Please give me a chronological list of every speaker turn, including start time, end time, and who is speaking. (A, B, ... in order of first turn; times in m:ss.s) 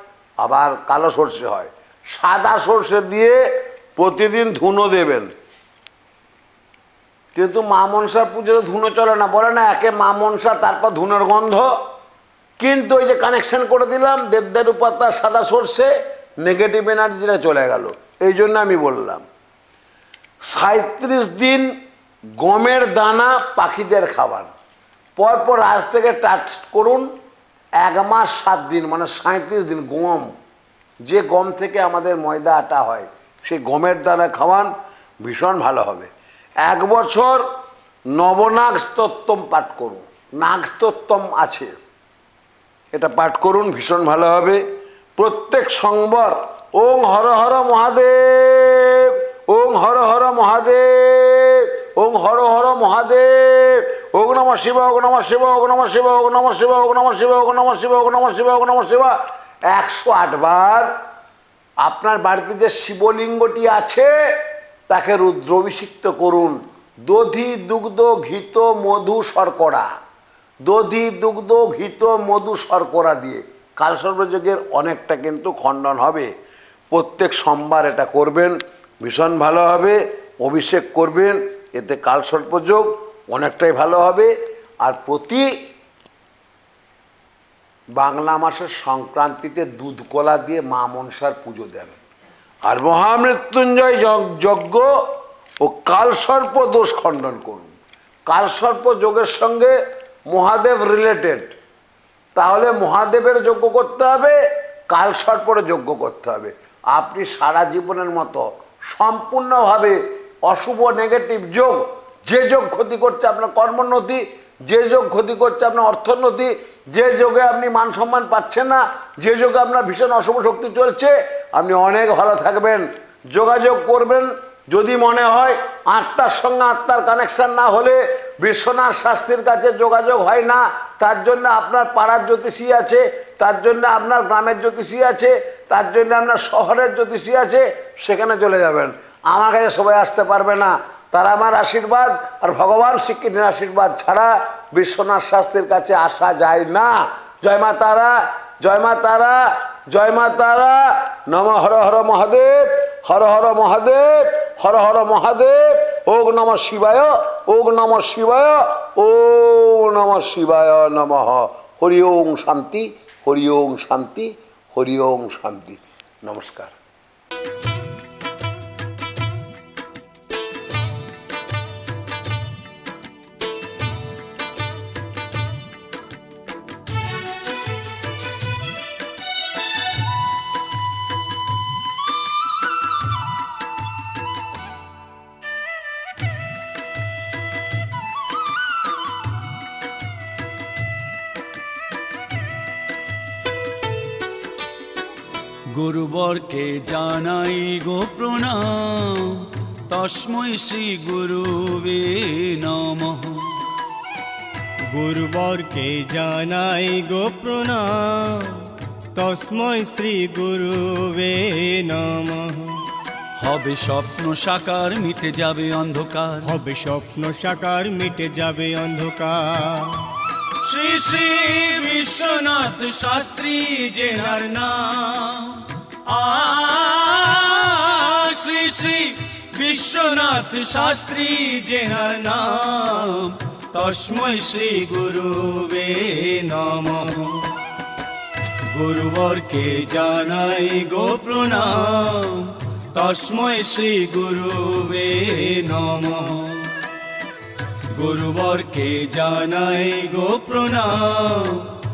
0:00.4-0:03.4 A
0:04.0-0:05.3 A
0:07.3-0:11.7 A
0:12.6-0:19.2 A
0:20.5-0:21.7 A
0:22.4-0:24.5 A
0:25.2-0:27.1 A
0:27.8-0:30.3 A
0:31.0-0:34.7 A
0:35.2-0:36.1 A
0:36.6-0:37.4 A
0:38.1-0:41.7 A
0:42.9-0:44.6 A
0:45.2-0:59.2 A
0:59.7-1:00.9 A
1:01.8-1:04.1 A
1:04.9-1:09.9 A
1:10.6-1:16.3 A
1:16.9-1:25.5 A
1:28.0-1:31.9 A
1:32.6-1:34.9 A
1:35.6-1:37.7 A
1:38.3-1:39.8 A
1:40.3-1:41.6 A
1:42.3-2:46.7 A
3:15.7-3:23.5 B
3:24.9-3:32.8 C
3:33.4-3:36.5 B
3:36.4-3:40.0 C
3:40.6-3:43.9 B
3:43.8-3:45.3 C
3:46.1-3:46.5 C
3:46.3-3:51.6 B
3:51.5-3:53.2 C
3:53.7-3:57.4 C
3:58.7-4:02.2 C
3:59.2-3:59.7 B
4:02.9-4:06.6 C
4:07.9-4:11.6 C
4:08.5-4:09.2 B